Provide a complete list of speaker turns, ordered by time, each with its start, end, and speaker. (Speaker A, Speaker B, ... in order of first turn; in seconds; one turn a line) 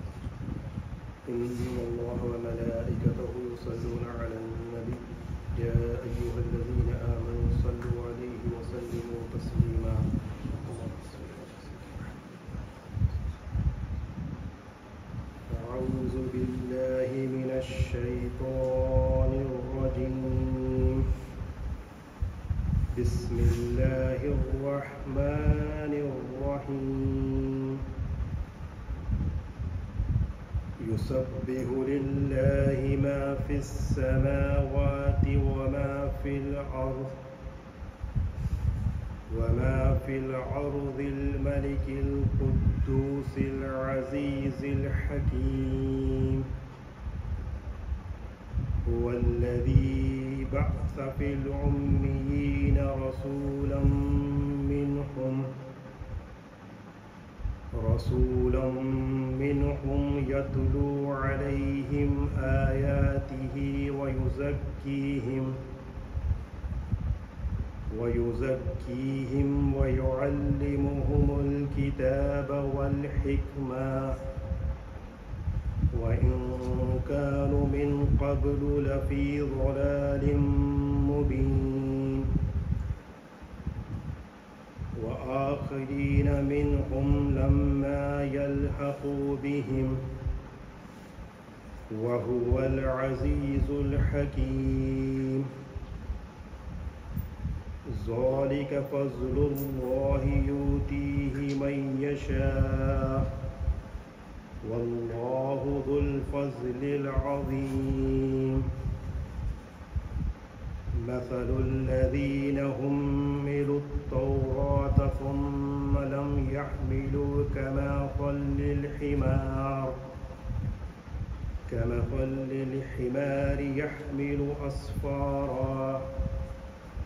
Speaker A: 1.3-5.0
Speaker A: 5.5-10.0
Speaker A: 10.6-12.2
Speaker A: 15.5-21.1
Speaker A: 22.9-27.8
Speaker A: 30.8-37.2
Speaker A: 39.3-46.5
Speaker A: 48.9-55.5
Speaker A: 57.7-65.6
Speaker A: 67.9-74.2
Speaker A: 75.9-82.3
Speaker A: 85.0-90.0
Speaker A: 91.9-95.5
Speaker A: 97.9-103.3
Speaker A: 104.6-108.7
Speaker A: 111.0-120.0
Speaker A: 121.7-126.1